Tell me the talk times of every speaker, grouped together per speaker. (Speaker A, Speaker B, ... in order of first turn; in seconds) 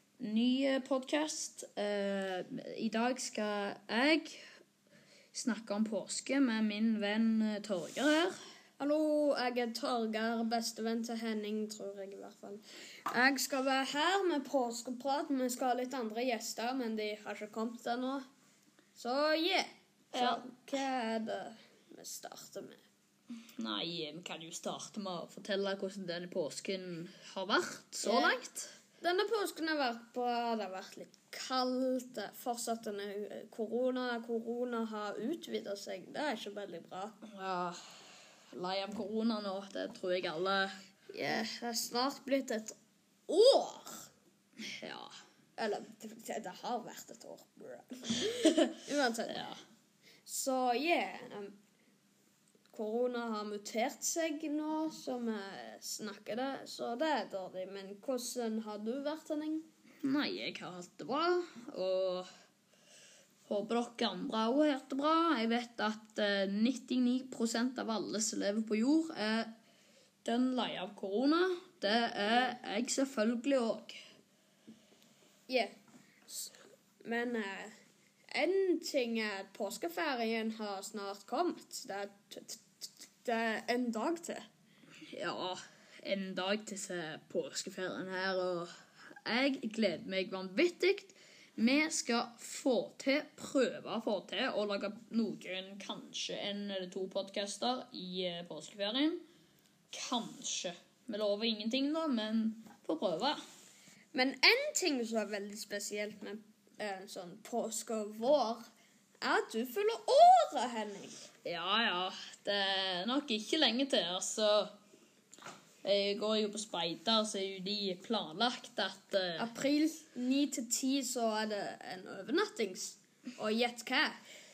Speaker A: 0.2-4.4, 5.3-8.3, 20.1-20.4, 23.6-28.7, 37.3-37.8, 38.5-40.8, 44.6-45.1, 49.3-49.6, 60.0-62.3, 63.5-69.5, 70.2-74.0, 85.1-99.2, 99.9-103.4, 111.4-114.7, 115.8-119.5
Speaker B: 8.8-18.2, 19.0-22.8, 28.0-28.4, 29.0-37.2, 41.1-42.8, 43.3-44.1, 45.6-49.4, 50.3-51.6, 52.7-59.6, 75.5-75.7, 76.3-77.7, 78.3-84.5, 104.1-108.6, 109.2-111.2, 119.4-124.2